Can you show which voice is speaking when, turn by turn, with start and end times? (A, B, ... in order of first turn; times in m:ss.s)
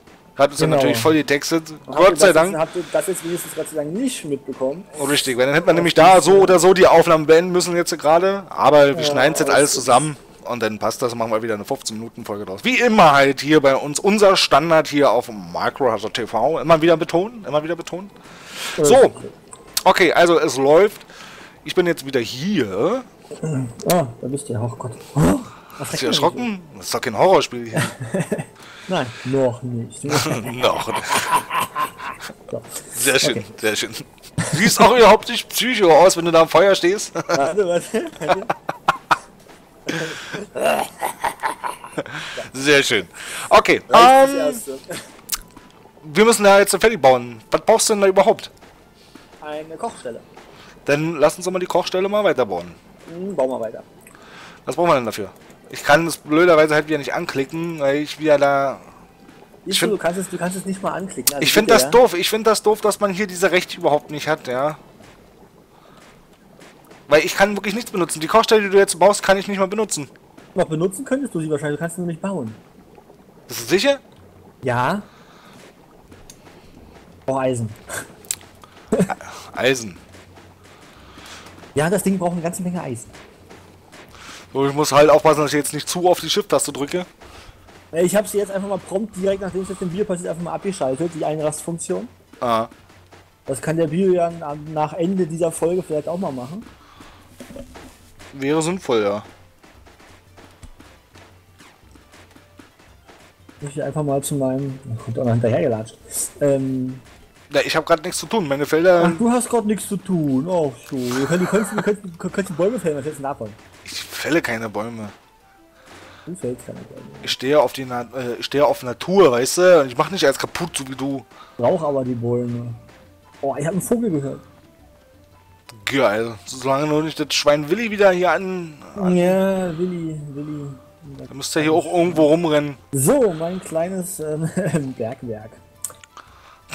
0:00.4-0:02.6 A
0:00.6-0:01.1 B
0:01.9-0:04.9 B
0:04.9-0:19.1 A
0:05.7-0:06.6 B
0:08.9-0:10.1 B
0:18.8-0:19.4 B
0:19.8-0:21.1 A
0:21.6-0:23.0 A
0:23.4-0:26.5 B
0:25.8-0:27.9 A
0:27.7-0:33.4 B
0:30.1-0:31.4 A
0:32.9-0:37.5 A
0:34.4-0:34.8 B
0:37.3-0:38.5 B
0:39.9-0:40.7 B
0:42.0-0:44.6 A
0:43.9-0:44.8 B
0:46.0-0:48.5 A
0:49.4-0:50.2 B
0:50.8-0:52.8 A
0:53.0-0:53.9 B
0:54.6-0:58.9 A
0:59.6-1:02.0 B
0:59.7-0:59.9 A
1:01.4-1:04.8 A
1:07.1-1:10.1 A
1:10.5-1:12.6 B
1:13.5-1:14.0 A
1:14.6-1:15.1 B
1:17.3-1:17.8 B
1:19.1-1:20.0 A
1:21.7-1:23.2 B
1:24.5-1:27.1 A
1:27.9-1:32.1 B
1:32.4-1:32.7 A
1:33.5-1:36.7 B
1:38.3-1:39.2 A
1:43.6-1:47.0 B
1:47.5-1:49.2 A
1:49.0-1:53.6 B
1:53.8-1:55.1 A
1:56.3-1:57.3 B
1:57.2-2:01.2 A
2:01.6-2:02.8 B
2:03.4-2:04.4 B
2:05.7-2:09.4 A
2:08.9-2:12.3 B
2:11.3-2:12.8 A
2:12.9-2:15.6 B